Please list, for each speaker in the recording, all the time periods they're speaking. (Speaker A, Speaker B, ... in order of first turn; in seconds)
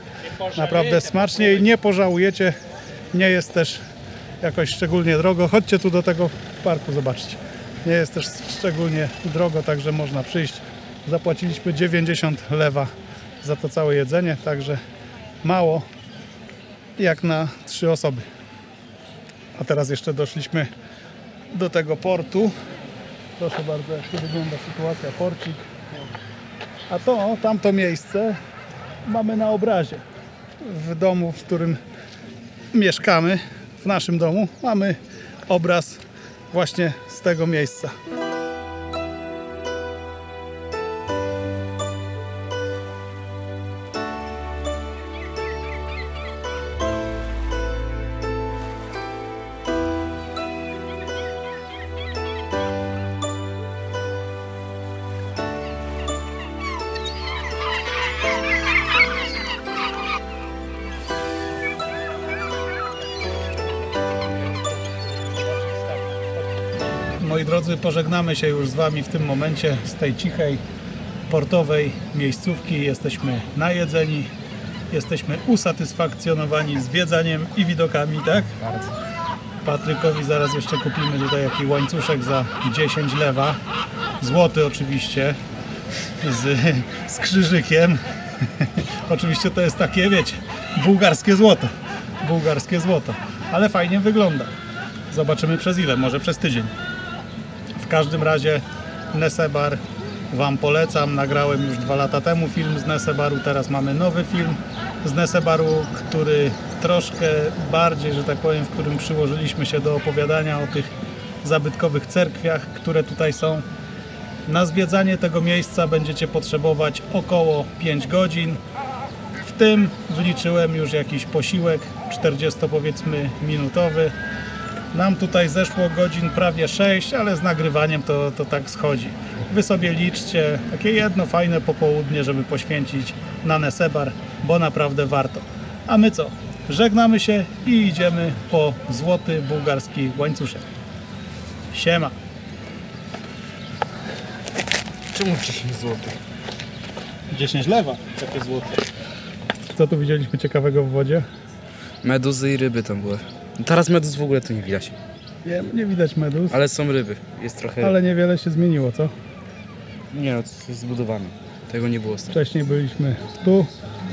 Speaker A: 0.5-2.6, 3.1-3.8, 4.4-12.9, 13.4-14.8, 15.4-15.9, 17.0-18.2, 19.6-20.7, 21.5-22.5, 23.4-25.7, 26.9-28.4, 29.1-30.0, 30.6-31.8, 32.7-37.9, 67.2-70.6, 71.3-74.3, 74.9-78.7, 79.6-83.6, 84.2-85.4, 86.2-94.5, 95.1-96.7, 97.8-110.9, 111.4-113.7, 114.5-118.6, 119.4-124.1, 124.9-140.7, 141.7-142.1, 147.3-148.8, 149.7-151.3, 155.4-156.6, 157.8-159.1, 162.3-163.7
Speaker B: 145.1-146.2, 152.0-155.0, 156.5-158.0, 160.1-162.3